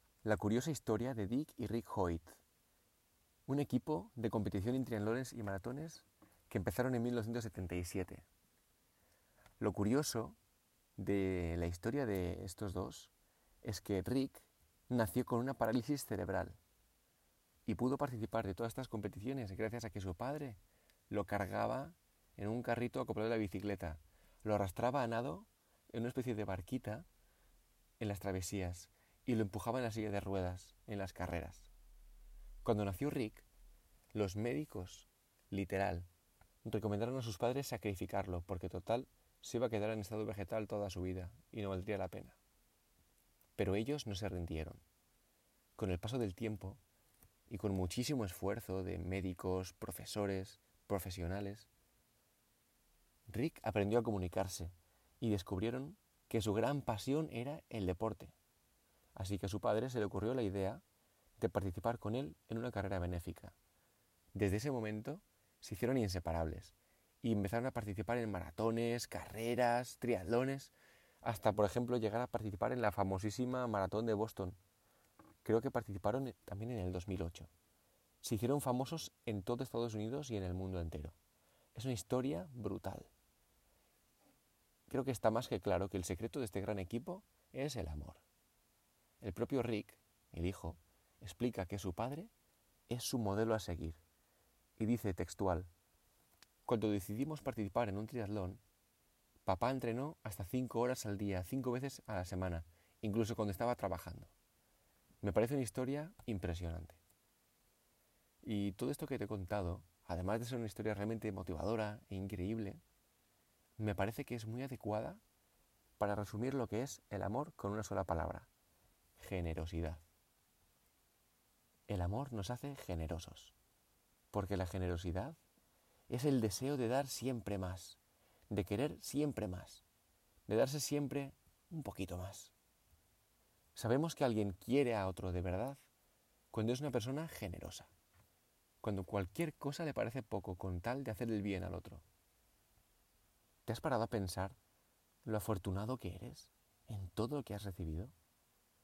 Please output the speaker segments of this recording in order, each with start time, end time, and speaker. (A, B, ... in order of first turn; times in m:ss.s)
0:00.2-0:02.4 A
0:03.5-0:08.3 A
0:09.6-0:10.4 A
0:11.0-0:13.1 A
0:13.6-0:16.6 A
0:17.6-0:20.6 A
0:21.1-0:27.0 A
0:28.0-0:31.7 A
0:32.6-0:33.5 A
0:34.1-0:36.1 A
0:36.6-0:42.4 A
0:43.6-0:44.8 A
0:45.8-0:46.8 A
0:47.5-0:51.7 A
0:53.3-0:58.3 A
0:59.2-1:00.8 A
1:01.4-1:03.6 A
1:04.3-1:14.6 A
1:15.4-1:17.5 A
1:18.2-1:21.2 A
1:21.8-1:23.1 A
1:24.9-1:28.2 A
1:29.2-1:32.3 A
1:32.9-1:34.0 A
1:34.8-1:35.7 A
1:36.7-1:38.6 A
1:39.5-1:44.3 A
1:45.2-1:47.0 A
1:48.4-1:52.8 A
1:53.8-1:55.2 A
1:56.0-1:58.5 A
1:59.2-2:00.0 A
2:01.9-2:03.5 A
2:04.3-2:05.4 A
2:06.1-2:09.8 A
2:10.5-2:12.5 A
2:13.8-2:15.8 A
2:16.5-2:17.9 A
2:18.8-2:22.0 A
2:23.7-2:24.6 A
2:25.2-2:28.2 A